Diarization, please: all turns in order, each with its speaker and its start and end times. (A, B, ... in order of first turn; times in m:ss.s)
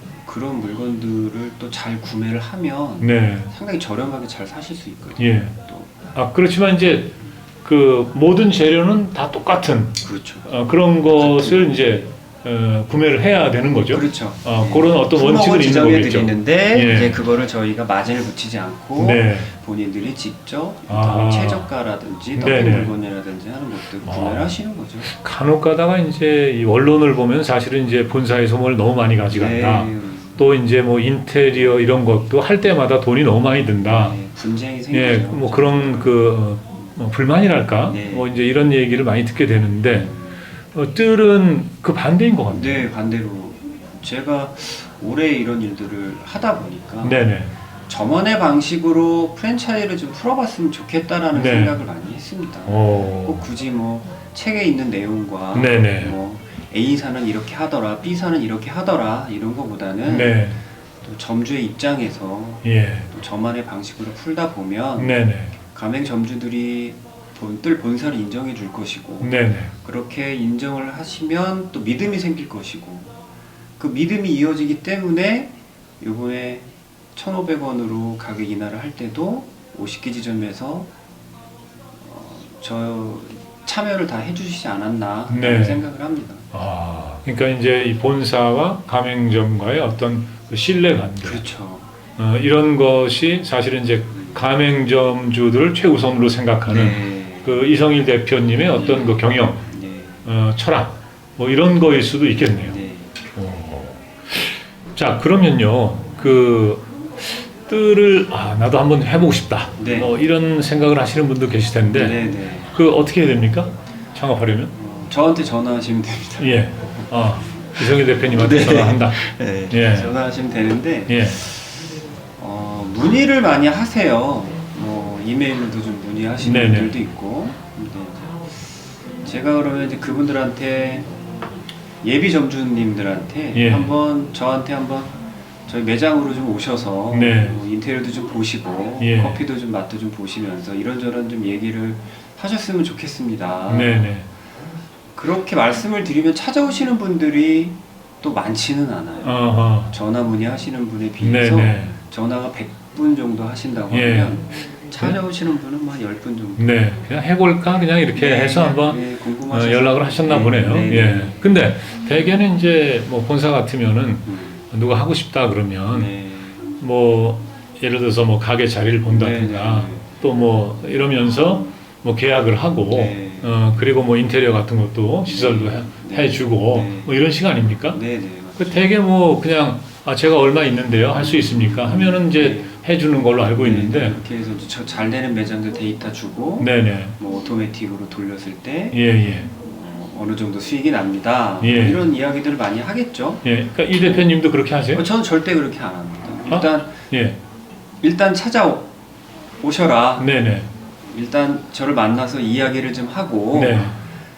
0:00.3-0:06.0 A
0:03.0-0:03.5 B
0:05.2-0:05.5 B
0:06.2-0:17.2 B
0:10.0-0:10.5 A
0:11.2-0:11.9 A
0:13.9-0:25.1 A
0:19.0-0:19.5 B
0:20.9-0:21.7 B
0:22.4-0:22.9 B
0:24.0-0:34.2 B
0:29.3-0:30.4 A
0:33.8-0:36.3 A
0:34.9-0:40.1 B
0:37.9-0:38.3 A
0:39.9-0:40.4 A
0:40.7-0:42.9 B
0:42.5-0:47.2 A
0:47.0-0:47.5 B
0:47.9-1:00.4 A
0:51.3-0:51.8 B
0:52.7-0:53.4 B
0:55.5-0:56.2 B
1:00.1-1:00.6 B
1:01.0-1:13.1 A
1:02.6-1:03.1 B
1:05.0-1:05.5 B
1:09.2-1:09.7 B
1:13.8-1:20.9 A
1:22.0-1:26.5 A
1:25.3-1:25.8 B
1:26.5-1:31.4 B
1:31.2-1:31.9 A
1:32.2-1:39.7 B
1:34.1-1:34.4 A
1:36.7-1:37.6 A
1:38.8-1:40.2 A
1:40.2-1:42.8 B
1:42.6-1:43.1 A
1:43.4-1:54.7 B
1:49.8-1:50.1 A
1:51.9-1:52.8 A
1:54.7-1:57.1 A
1:56.4-2:00.1 B
1:57.8-2:01.9 A
2:01.1-2:01.4 B
2:02.4-2:08.4 A
2:06.4-2:07.0 B
2:09.2-2:11.1 A
2:12.0-2:24.1 A
2:13.5-2:13.9 B
2:17.1-2:17.6 B
2:19.0-2:19.4 B
2:23.7-2:24.3 B
2:25.2-2:29.4 A
2:29.2-2:29.9 B
2:29.9-2:36.7 A
2:31.2-2:32.0 B
2:33.9-2:35.2 B
2:36.6-2:46.1 B
2:38.2-2:41.4 A
2:44.3-2:44.6 A
2:45.9-2:46.6 A
2:46.8-2:58.0 B
2:49.1-2:50.2 A
2:52.9-2:53.6 A
2:55.2-2:57.1 A
2:57.9-2:58.9 A
2:58.6-3:04.2 B
3:01.2-3:02.8 A
3:03.6-3:09.0 A
3:06.6-3:07.2 B
3:08.9-3:09.5 B
3:09.6-3:14.3 A
3:11.6-3:12.1 B
3:13.4-3:15.0 B
3:14.9-3:17.0 A
3:16.5-3:17.4 B
3:18.0-3:18.9 A
3:19.6-3:20.3 A
3:20.2-3:20.7 B
3:21.1-3:24.0 A
3:23.5-3:24.0 B